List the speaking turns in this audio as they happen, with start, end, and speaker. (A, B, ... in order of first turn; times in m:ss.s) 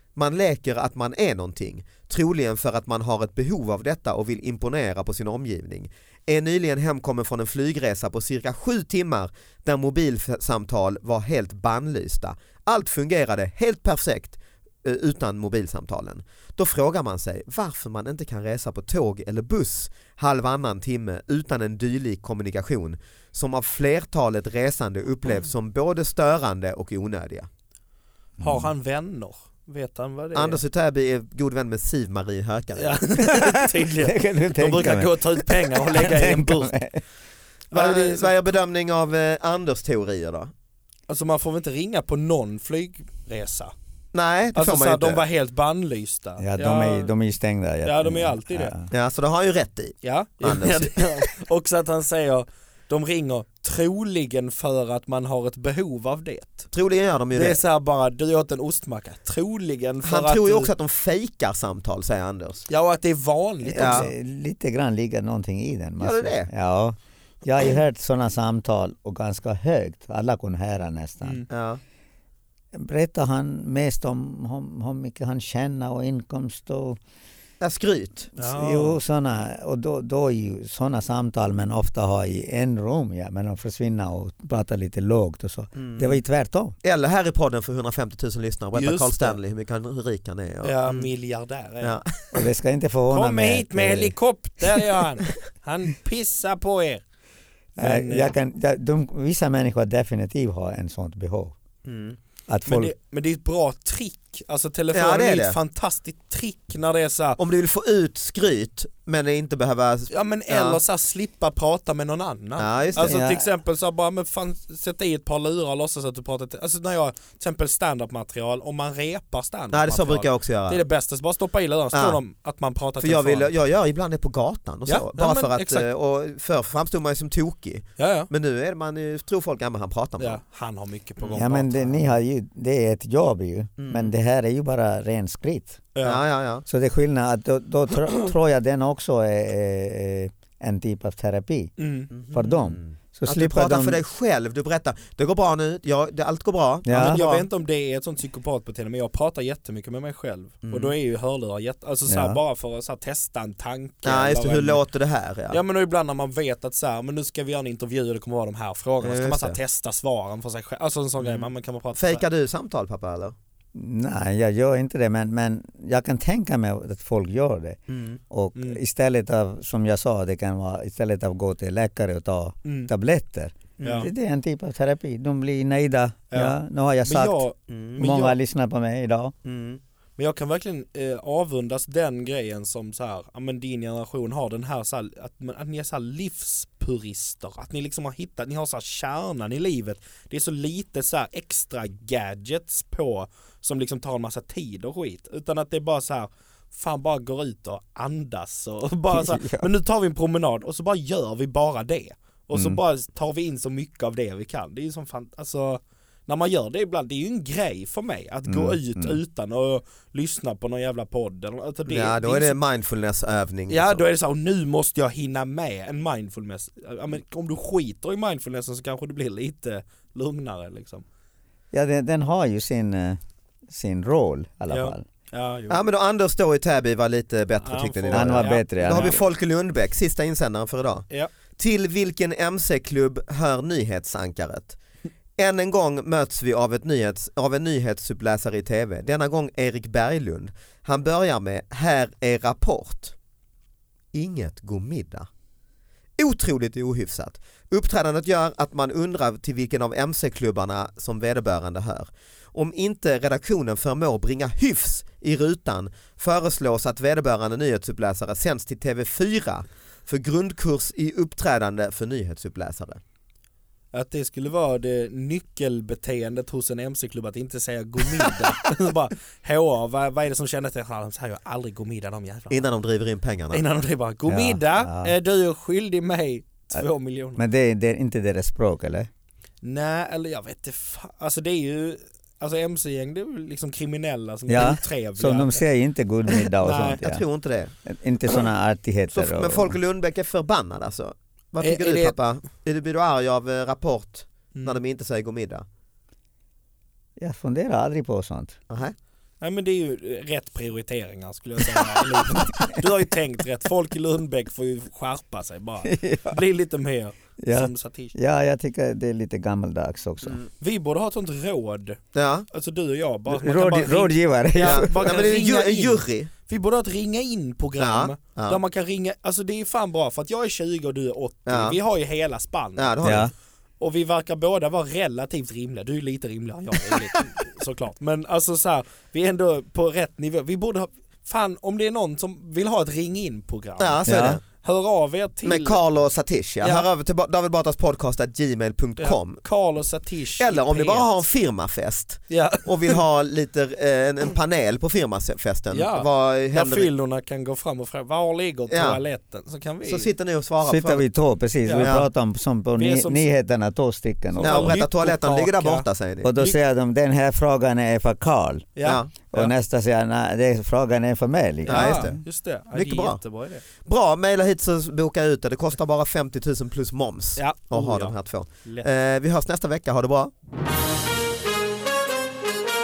0:00.2-0:27.5 A
0:28.4-0:30.6 B
0:28.4-0:28.7 C
0:30.3-0:33.0 A
0:32.8-0:36.8 B
0:33.2-0:37.0 C
0:37.7-0:38.3 B
0:37.7-0:40.5 A
0:41.1-0:43.7 B
0:44.1-0:45.2 A
0:44.5-0:47.1 B
0:46.4-0:48.9 C
0:47.8-0:48.7 B
0:48.9-0:51.2 A
0:50.0-0:56.7 B
0:56.7-0:57.6 A
0:57.3-1:00.7 B
1:00.0-1:02.6 A
1:02.7-1:04.1 B
1:03.6-1:11.4 C
1:03.7-1:04.1 A
1:06.0-1:06.5 A
1:11.5-1:11.8 A
1:12.7-1:17.0 C
1:17.6-1:18.3 A
1:18.4-1:19.0 B
1:18.4-1:26.7 C
1:25.8-1:26.2 A
1:26.8-1:31.1 A
1:28.7-1:29.4 B
1:30.6-1:32.0 B
1:31.8-1:32.4 A
1:32.3-1:34.1 C
1:33.1-1:37.0 B
1:37.8-1:41.5 C
1:37.8-1:38.3 B
1:41.8-1:42.2 A
1:42.5-1:42.9 C
1:42.6-1:47.4 B
1:44.9-1:45.6 A
1:47.4-1:50.8 A
1:50.1-2:03.5 B
1:52.6-1:53.2 A
1:53.0-1:53.4 C
1:59.7-2:00.8 A
2:01.9-2:02.2 A
2:03.0-2:10.4 A
2:04.8-2:05.9 B
2:08.0-2:08.3 B
2:10.2-2:12.1 B
2:11.2-2:11.4 A
2:11.4-2:15.8 C
2:13.8-2:14.1 A
2:15.9-2:16.2 B
2:16.0-2:16.6 A
2:16.6-2:21.7 C
2:21.8-2:22.1 B
2:22.1-2:27.5 A
2:22.3-2:24.0 C
2:26.8-2:27.2 C
2:26.9-2:34.8 B
2:30.6-2:30.9 A
2:32.1-2:32.4 C
2:34.0-2:35.6 A
2:35.5-2:42.2 B
2:39.0-2:39.6 A
2:41.2-2:43.3 A
2:43.7-2:47.8 C
2:47.9-2:48.2 A
2:48.3-2:57.4 C
2:52.6-2:52.9 B
2:53.8-2:54.1 B
2:56.3-2:58.3 B
2:57.7-2:58.0 A
2:58.0-2:59.3 C
2:59.4-2:59.8 A
3:00.2-3:32.6 B
3:19.1-3:19.7 C
3:22.5-3:22.8 C
3:28.5-3:29.2 C
3:31.8-3:34.0 A
3:33.7-3:41.0 B
3:41.7-3:45.0 C
3:44.7-3:45.8 B
3:45.7-3:51.1 A
3:47.6-3:49.2 B
3:48.1-3:49.2 C
3:51.6-3:54.8 A
3:55.4-4:03.1 A
4:04.1-4:05.3 A
4:06.2-4:23.0 A
4:23.9-4:32.6 B
4:32.5-4:33.6 A
4:33.5-4:37.4 B
4:34.3-4:35.1 C
4:37.4-4:39.1 C
4:39.6-4:45.6 B
4:44.5-4:47.2 C
4:46.6-4:47.0 B
4:47.0-4:47.7 A
4:47.8-4:49.8 C
4:49.1-4:55.6 A
4:51.6-4:52.2 B
4:54.5-4:54.8 B
4:57.2-4:58.6 C
4:58.7-4:58.9 A
4:59.4-5:08.1 B
5:05.8-5:06.4 C
5:07.4-5:10.4 C
5:10.6-5:22.9 B
5:12.1-5:12.5 A
5:13.3-5:15.0 C
5:14.6-5:16.3 A
5:17.8-5:18.6 A
5:21.5-5:21.8 A
5:22.8-5:23.3 A
5:23.0-5:23.3 C
5:23.8-5:35.8 B
5:33.8-5:34.4 A
5:34.0-5:34.4 C
5:35.4-5:39.4 A
5:36.6-5:36.9 B
5:39.0-5:41.1 B
5:40.4-5:46.9 A
5:42.3-5:43.0 B
5:45.7-5:50.1 B
5:48.7-5:49.0 A
5:49.8-5:51.0 A
5:50.6-5:54.8 C
5:51.6-5:51.9 B
5:51.8-5:52.1 A
5:52.8-5:53.3 B
5:54.3-5:56.6 B
5:54.4-5:56.3 A
5:56.2-5:58.7 C
5:58.8-5:59.5 B
5:58.8-5:59.1 A
5:59.3-6:02.2 C
6:01.7-6:02.2 A
6:01.7-6:03.6 B
6:02.7-6:03.2 A
6:03.8-6:10.3 A
6:07.4-6:08.9 B